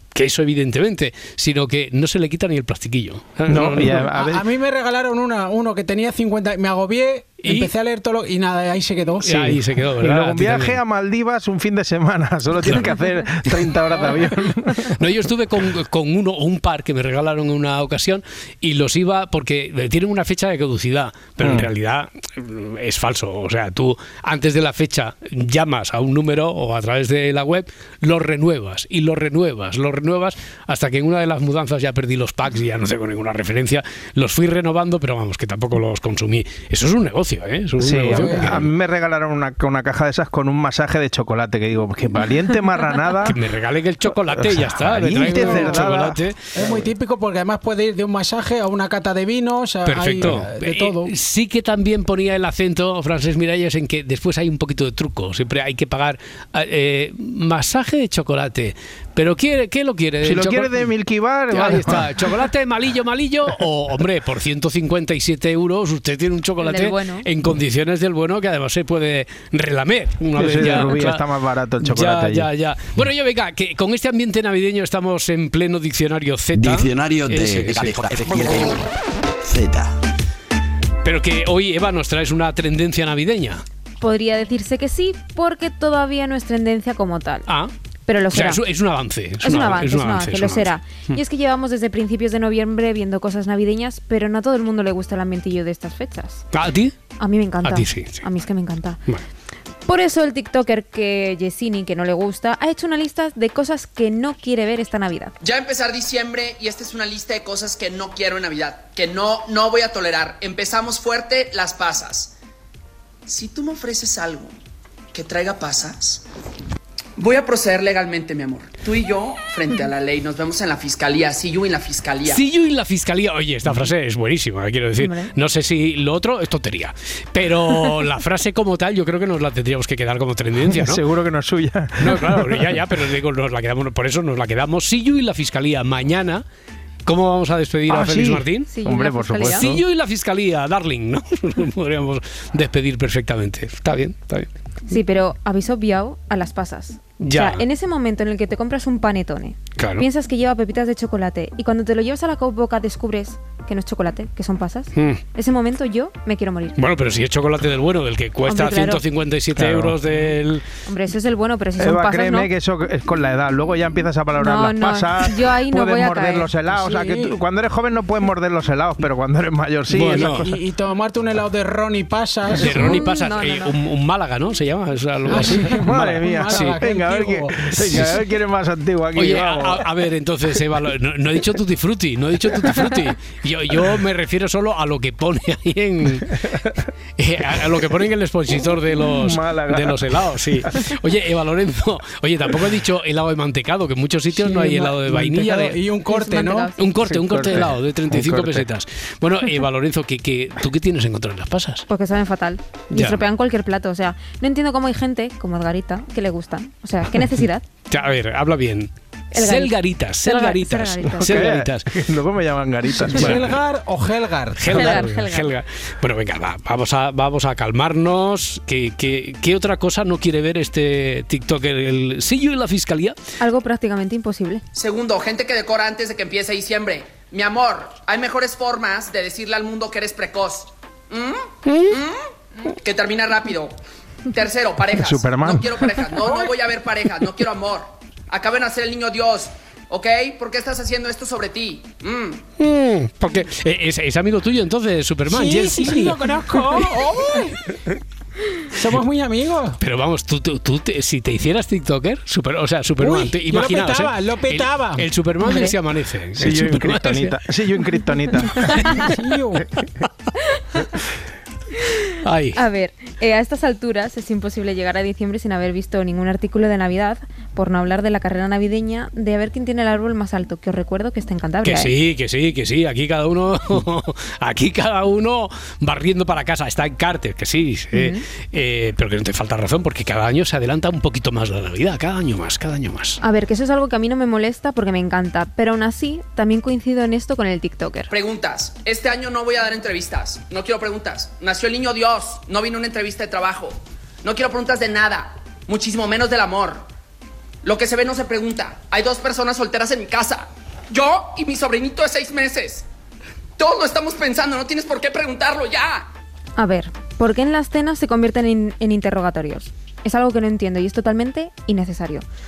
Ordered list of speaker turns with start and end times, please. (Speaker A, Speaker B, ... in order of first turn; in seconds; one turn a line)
Speaker A: 0.1-4.1
Speaker B: 3.5-4.5
Speaker C: 4.0-9.6
Speaker A: 7.4-7.7
Speaker A: 9.2-10.8
Speaker B: 10.0-14.9
Speaker A: 12.6-13.0
Speaker A: 14.9-38.7
Speaker B: 21.4-21.7
Speaker B: 37.8-43.4
Speaker C: 38.1-38.6
Speaker A: 43.2-46.5
Speaker B: 44.3-46.9
Speaker C: 45.3-45.8
Speaker C: 46.5-51.1
Speaker A: 49.9-60.9
Speaker B: 60.2-62.3
Speaker A: 61.5-71.2
Speaker D: 66.6-67.3
Speaker B: 70.4-72.5
Speaker A: 71.8-78.7
Speaker E: 76.6-78.8
Speaker E: 79.5-79.9
Speaker A: 81.0-83.6
Speaker D: 84.0-87.5
Speaker D: 88.1-88.6
Speaker A: 88.3-91.2
Speaker D: 89.4-96.5
Speaker A: 96.5-96.9
Speaker D: 97.2-99.0
Speaker A: 97.6-98.2
Speaker D: 99.8-105.3
Speaker F: 105.4-112.3
Speaker F: 113.3-114.5
Speaker F: 115.1-116.2
Speaker F: 117.2-122.4
Speaker A: 122.3-131.0
Speaker D: 125.0-125.3
Speaker B: 130.6-132.8
Speaker A: 132.0-136.4
Speaker A: 137.1-138.7
Speaker B: 137.9-139.8
Speaker D: 138.7-139.7
Speaker A: 139.4-144.5
Speaker D: 144.9-156.8
Speaker A: 147.2-147.6
Speaker A: 149.8-150.1
Speaker A: 154.9-155.2
Speaker A: 156.8-160.7
Speaker D: 158.5-159.0
Speaker B: 159.6-160.0
Speaker D: 160.9-162.5
Speaker B: 161.8-170.6
Speaker D: 164.4-166.5
Speaker C: 166.6-167.3
Speaker A: 169.9-170.5
Speaker C: 170.4-172.9
Speaker A: 172.6-175.9
Speaker D: 172.7-173.8
Speaker C: 175.3-177.6
Speaker B: 175.3-179.9
Speaker A: 176.5-176.8
Speaker A: 177.7-178.2
Speaker A: 179.2-186.4
Speaker A: 187.2-195.8
Speaker B: 189.0-190.7
Speaker C: 194.3-196.7
Speaker D: 196.1-196.9
Speaker A: 196.8-201.8
Speaker B: 197.0-198.7
Speaker D: 201.9-207.7
Speaker A: 202.9-203.2
Speaker A: 207.9-211.9
Speaker D: 209.3-211.5
Speaker B: 211.1-213.5
Speaker A: 213.1-213.6
Speaker C: 213.1-215.0
Speaker A: 214.6-223.2
Speaker D: 214.7-215.5
Speaker D: 223.4-224.6
Speaker F: 224.7-233.8
Speaker A: 231.7-231.9
Speaker F: 234.3-242.4
Speaker B: 234.9-235.9
Speaker A: 242.6-246.9
Speaker C: 245.3-247.6
Speaker C: 248.7-249.8
Speaker A: 249.8-257.4
Speaker C: 253.0-255.1
Speaker D: 255.4-255.8
Speaker B: 256.4-258.9
Speaker A: 258.6-259.1
Speaker C: 259.0-259.7
Speaker A: 262.2-262.6
Speaker D: 262.5-271.9
Speaker A: 271.6-283.2
Speaker D: 277.9-278.2
Speaker D: 283.2-288.1
Speaker F: 288.1-296.9
Speaker F: 297.6-302.9
Speaker F: 303.6-306.1
Speaker D: 306.6-312.2